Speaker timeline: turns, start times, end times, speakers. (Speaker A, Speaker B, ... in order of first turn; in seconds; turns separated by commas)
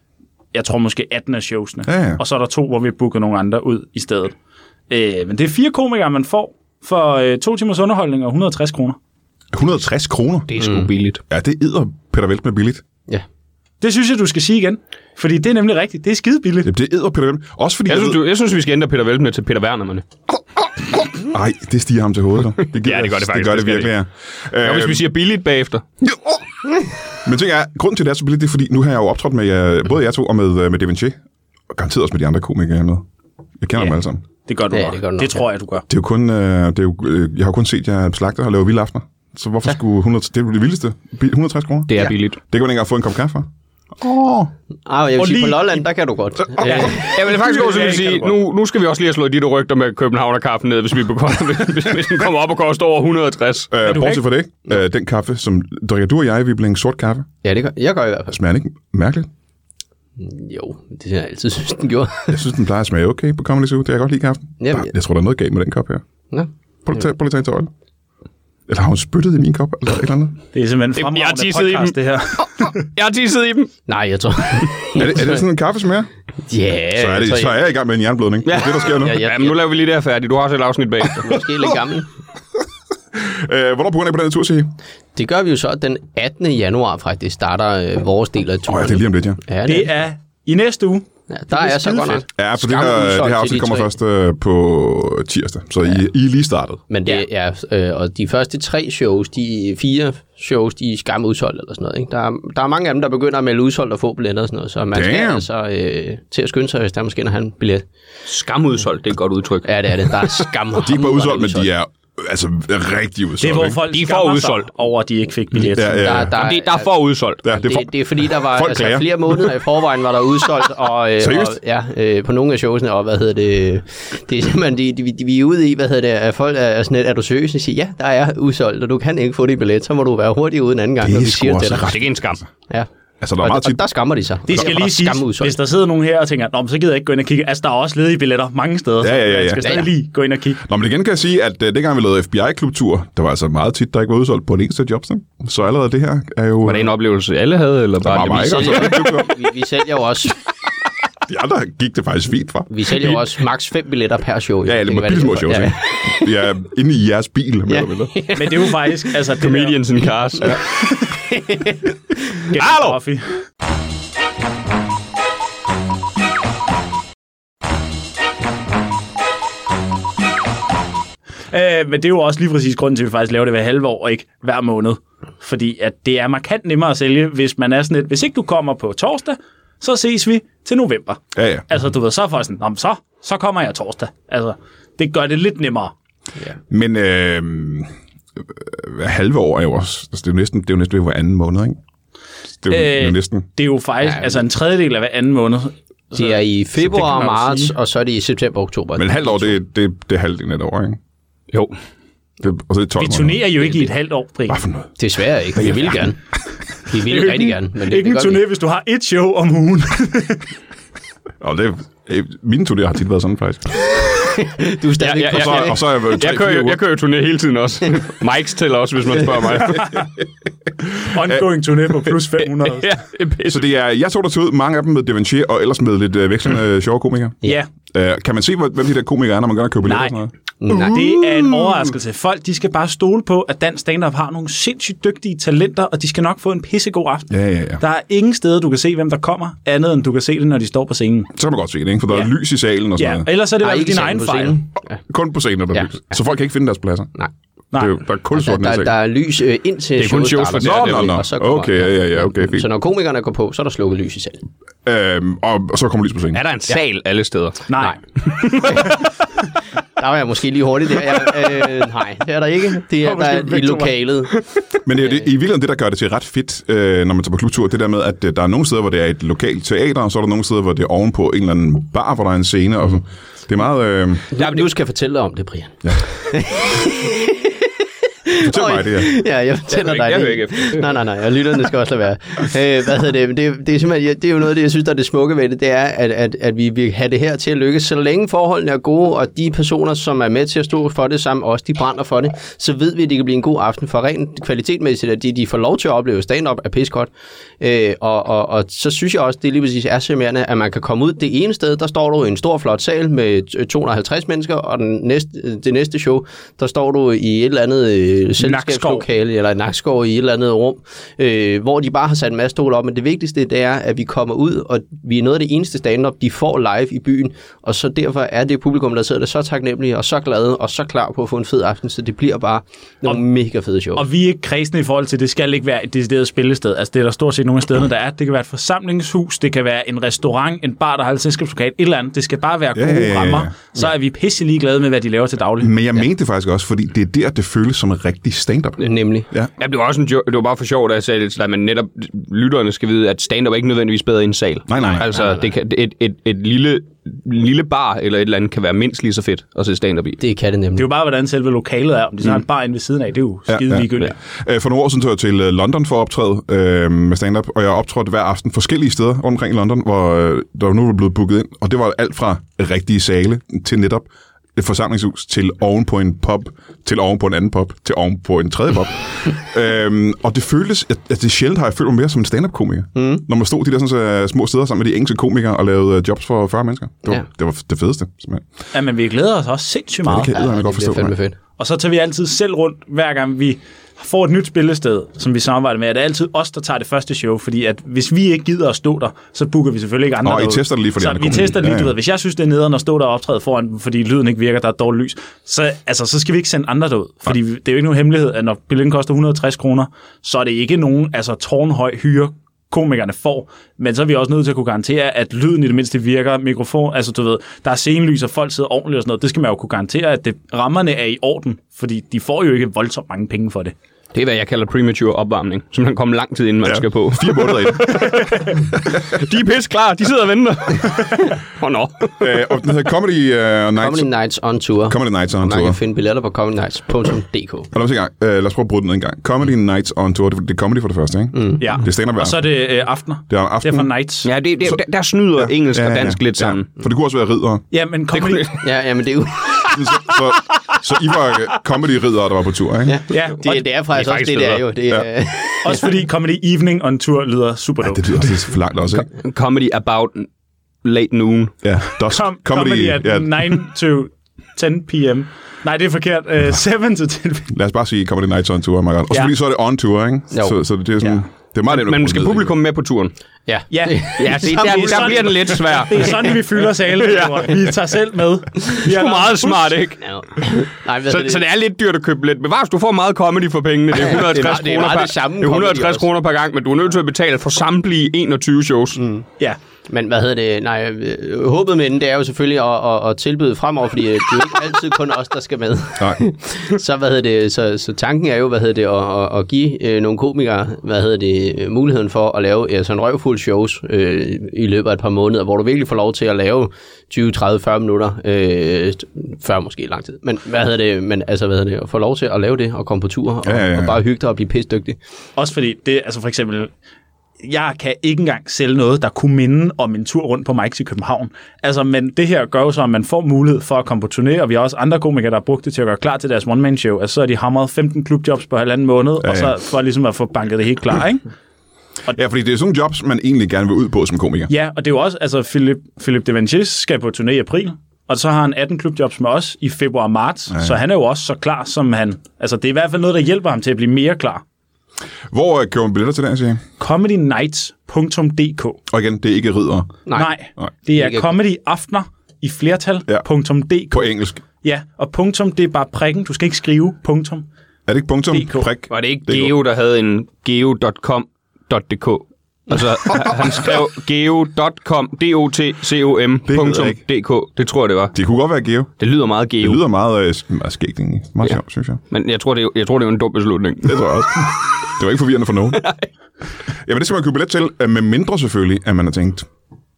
Speaker A: 0.5-4.3, Speaker B: 1.9-2.2, Speaker A: 4.9-9.0, Speaker B: 9.5-10.5, Speaker C: 10.5-11.2, Speaker D: 10.6-10.9, Speaker B: 11.3-12.8, Speaker A: 13.8-16.7, Speaker B: 16.6-18.2, Speaker C: 17.9-20.0, Speaker B: 21.0-25.1, Speaker C: 22.7-23.9, Speaker C: 24.6-25.8, Speaker B: 26.0-26.4, Speaker B: 27.2-31.2, Speaker B: 31.7-33.0, Speaker B: 33.6-34.2, Speaker A: 34.5-35.9, Speaker D: 34.7-35.4, Speaker B: 35.9-43.5, Speaker C: 41.9-42.4, Speaker B: 44.0-44.5, Speaker D: 44.9-47.1, Speaker A: 45.2-45.8, Speaker B: 46.5-48.2, Speaker A: 46.6-48.3, Speaker C: 47.1-53.7, Speaker B: 53.7-57.3, Speaker A: 53.8-54.2, Speaker D: 57.4-58.3, Speaker B: 58.3-59.3, Speaker D: 60.2-62.4, Speaker B: 62.3-66.0, Speaker D: 64.6-64.9, Speaker B: 66.8-67.7, Speaker B: 68.7-70.4, Speaker A: 70.5-72.7, Speaker C: 71.0-71.9, Speaker C: 72.7-73.7, Speaker D: 73.9-75.4, Speaker B: 74.9-76.1, Speaker D: 76.5-77.5, Speaker B: 76.9-79.2, Speaker C: 78.4-81.4, Speaker D: 78.8-79.6, Speaker D: 81.2-82.1, Speaker B: 83.1-84.7, Speaker D: 85.1-89.9, Speaker B: 88.7-89.4, Speaker A: 89.7-92.2, Speaker D: 91.3-93.9, Speaker B: 92.3-96.8, Speaker D: 96.9-107.8, Speaker B: 104.9-105.4, Speaker C: 108.2-110.4, Speaker D: 109.6-111.7, Speaker B: 110.8-113.8, Speaker A: 113.4-116.1, Speaker C: 113.9-114.7, Speaker B: 115.6-116.4, Speaker D: 115.8-116.9, Speaker C: 116.3-117.4, Speaker B: 117.4-119.4, Speaker D: 117.5-131.9, Speaker B: 121.2-121.6, Speaker B: 131.0-132.4, Speaker C: 131.8-132.4, Speaker B: 133.2-133.8, Speaker D: 133.4-135.6, Speaker A: 134.5-140.6, Speaker B: 139.0-139.8, Speaker D: 139.6-139.9, Speaker B: 140.6-146.9, Speaker C: 146.6-149.2, Speaker B: 148.0-149.3, Speaker D: 148.3-150.4, Speaker B: 151.2-153.3, Speaker D: 152.7-156.3, Speaker B: 154.6-158.1, Speaker D: 157.7-159.0, Speaker A: 158.3-159.8, Speaker C: 159.4-160.6, Speaker D: 161.3-161.8, Speaker A: 162.5-163.4, Speaker C: 162.5-163.0, Speaker A: 171.5-185.9, Speaker B: 181.3-181.7, Speaker B: 186.7-187.9, Speaker B: 188.5-191.8, Speaker B: 192.6-193.5, Speaker A: 192.7-197.7, Speaker D: 196.1-199.6, Speaker B: 198.9-201.0, Speaker C: 201.5-201.8, Speaker B: 202.4-203.7, Speaker A: 203.0-204.6, Speaker B: 204.5-204.9, Speaker D: 205.0-206.2, Speaker B: 205.6-206.1, Speaker D: 206.8-208.4, Speaker A: 206.9-210.5, Speaker B: 211.4-214.0, Speaker D: 214.2-216.2, Speaker C: 215.0-220.1, Speaker B: 215.2-216.8, Speaker A: 219.8-220.1, Speaker A: 221.0-223.0, Speaker C: 222.6-223.6, Speaker B: 223.5-231.9, Speaker A: 227.4-227.7, Speaker A: 229.8-230.1, Speaker D: 230.6-231.2, Speaker A: 230.7-241.3, Speaker B: 237.3-237.8, Speaker B: 241.3-243.3, Speaker A: 243.0-244.6, Speaker D: 243.6-245.0, Speaker B: 245.0-247.1, Speaker B: 247.7-248.9, Speaker D: 248.3-254.4, Speaker C: 250.0-251.2, Speaker B: 250.6-252.7, Speaker B: 254.8-256.4, Speaker C: 256.3-257.7, Speaker A: 257.7-258.0, Speaker C: 258.2-258.8, Speaker A: 258.6-258.9, Speaker D: 258.6-258.9, Speaker D: 260.0-264.3, Speaker A: 263.0-263.9, Speaker B: 264.8-274.2, Speaker D: 274.3-277.5, Speaker C: 274.4-274.6, Speaker D: 278.3-324.1, Speaker B: 278.4-279.1, Speaker C: 279.7-281.0, Speaker A: 308.4-309.1, Speaker A: 323.9-335.7, Speaker B: 332.7-333.5, Speaker B: 335.6-339.5, Speaker D: 338.8-339.3, Speaker C: 339.6-350.2, Speaker B: 344.7-345.1, Speaker D: 345.1-345.5, Speaker D: 350.2-350.9, Speaker A: 350.8-354.1, Speaker B: 353.5-378.4, Speaker D: 372.9-373.2, Speaker A: 378.7-380.3, Speaker B: 380.0-381.1, Speaker D: 380.3-381.4, Speaker A: 381.6-413.7, Speaker B: 390.2-392.0, Speaker C: 414.1-418.2, Speaker B: 416.6-419.0, Speaker A: 418.0-418.4, Speaker C: 418.9-422.5, Speaker B: 422.2-424.1, Speaker D: 423.8-427.7, Speaker B: 424.9-425.8, Speaker B: 427.7-432.5, Speaker D: 431.3-431.6, Speaker A: 431.6-434.3, Speaker B: 433.3-433.9, Speaker C: 434.2-436.7, Speaker B: 435.4-437.6, Speaker A: 437.7-438.6, Speaker C: 438.1-438.5, Speaker D: 438.6-439.8, Speaker B: 439.7-443.0, Speaker D: 442.8-445.9, Speaker A: 443.1-443.4, Speaker C: 443.4-444.7, Speaker A: 445.6-448.5, Speaker B: 447.8-449.1, Speaker C: 449.0-450.3, Speaker C: 450.8-451.6, Speaker B: 451.6-453.6, Speaker A: 452.1-457.5, Speaker B: 457.5-462.6, Speaker D: 460.3-460.6, Speaker C: 461.6-463.1, Speaker D: 463.5-465.3, Speaker A: 463.7-469.8, Speaker C: 464.2-467.6, Speaker C: 468.7-470.5, Speaker D: 470.0-471.4, Speaker C: 471.1-479.0, Speaker D: 474.0-476.1, Speaker D: 478.9-479.2, Speaker D: 479.9-505.0, Speaker B: 503.4-504.0, Speaker A: 505.4-506.7, Speaker A: 507.4-521.2, Speaker B: 519.2-519.5, Speaker B: 522.1-524.5, Speaker A: 524.5-534.4, Speaker B: 530.5-530.8, Speaker B: 535.3-536.6, Speaker A: 536.8-538.8, Speaker B: 538.9-540.0, Speaker A: 540.1-547.5, Speaker D: 541.0-541.3, Speaker B: 543.9-544.4, Speaker B: 547.9-549.5, Speaker A: 548.3-548.7, Speaker C: 548.9-558.2, Speaker B: 556.5-557.0, Speaker B: 558.1-559.0, Speaker C: 559.0-559.8, Speaker B: 559.6-562.0, Speaker C: 562.1-564.5, Speaker B: 563.8-565.9, Speaker C: 565.7-566.1, Speaker B: 566.8-569.5